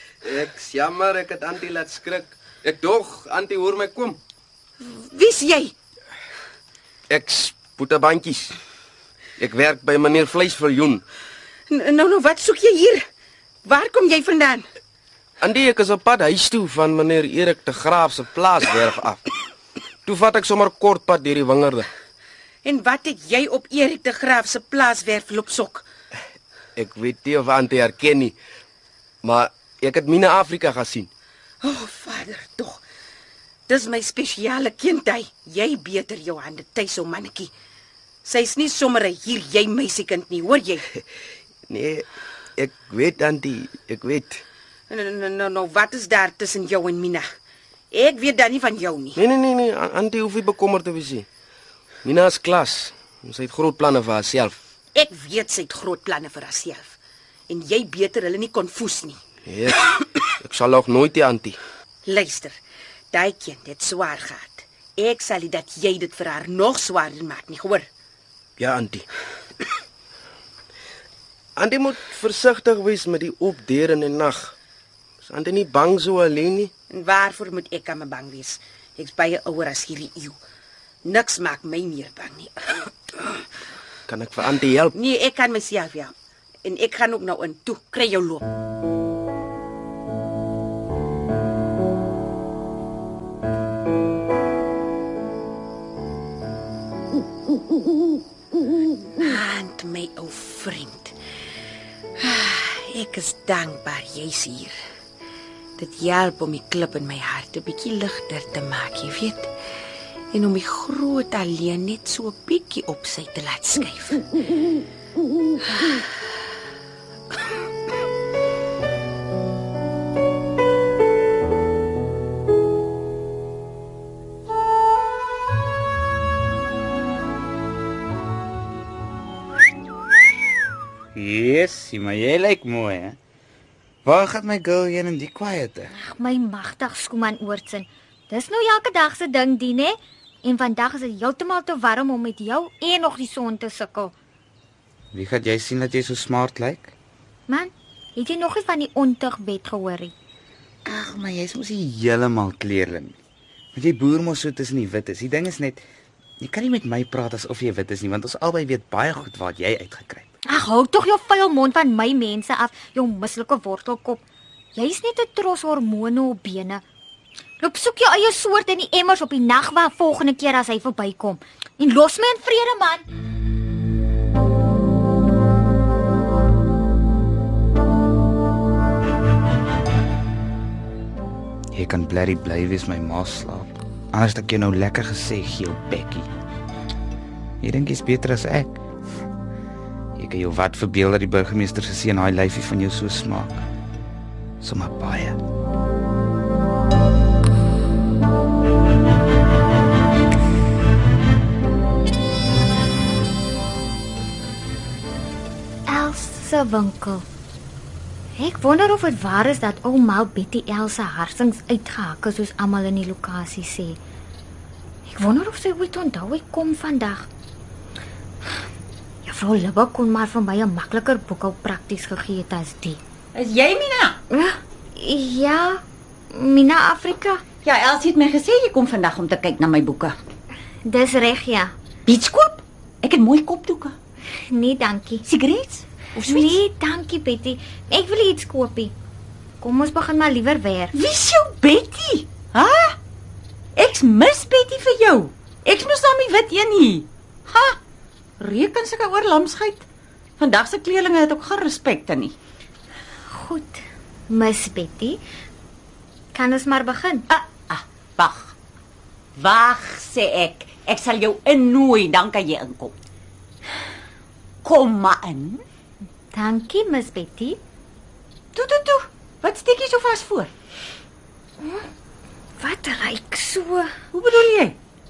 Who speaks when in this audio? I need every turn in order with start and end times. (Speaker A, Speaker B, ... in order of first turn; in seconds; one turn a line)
Speaker A: 0.2-4.2
Speaker B: 4.8-5.7
Speaker A: 7.1-8.6
Speaker A: 9.4-11.0
Speaker B: 11.7-13.1
Speaker B: 13.7-14.7
Speaker A: 15.4-19.2
Speaker A: 20.1-21.9
Speaker B: 22.6-25.9
Speaker A: 26.8-28.4
Speaker A: 29.2-31.1
Speaker B: 31.6-32.8
Speaker B: 33.7-37.5
Speaker B: 38.2-40.9
Speaker A: 41.7-42.1
Speaker A: 42.6-44.4
Speaker B: 44.9-47.3
Speaker B: 47.9-49.2
Speaker A: 49.2-51.3
Speaker A: 52.0-54.6
Speaker B: 55.0-56.9
Speaker B: 57.5-59.2
Speaker A: 59.5-61.6
Speaker B: 62.1-62.6
Speaker B: 63.1-67.9
Speaker A: 68.6-69.1
Speaker A: 71.6-74.5
Speaker A: 75.2-76.7
Speaker B: 76.9-80.4
Speaker B: 81.0-83.4
Speaker A: 84.1-84.9
Speaker B: 84.9-88.5
Speaker B: 99.2-101.2
Speaker B: 102.2-104.8
Speaker B: 105.8-109.5
Speaker B: 110.3-114.2
Speaker C: 131.2-133.2
Speaker C: 134.1-135.9
Speaker D: 135.9-144.2
Speaker C: 145.1-146.9
Speaker D: 147.5-150.1
Speaker C: 150.8-153.2
Speaker C: 153.7-155.8
Speaker C: 156.4-160.3
Speaker D: 160.5-164.2
Speaker D: 164.7-166.8
Speaker D: 167.6-173.1
Speaker C: 181.7-186.3
Speaker C: 187.6-188.8
Speaker C: 190.2-193.7
Speaker C: 194.6-195.4
Speaker D: 205.9-207.2
Speaker D: 208.3-214.0
Speaker D: 215.1-217.3
Speaker D: 219.2-223.0
Speaker E: 223.3-224.2
Speaker D: 224.3-227.4
Speaker E: 227.6-230.2
Speaker D: 230.8-231.7
Speaker E: 232.1-233.9
Speaker D: 234.3-235.2
Speaker E: 235.2-236.6
Speaker D: 236.3-238.9
Speaker D: 239.6-240.9
Speaker E: 240.9-243.0
Speaker E: 243.8-247.8
Speaker E: 248.4-249.8
Speaker E: 250.4-252.3
Speaker D: 253.3-255.2
Speaker D: 256.3-257.3
Speaker E: 257.3-258.5
Speaker E: 259.4-262.9
Speaker E: 264.6-265.6
Speaker D: 266.3-267.6
Speaker E: 268.6-270.5
Speaker D: 271.6-271.9
Speaker D: 272.6-273.9
Speaker E: 274.1-274.8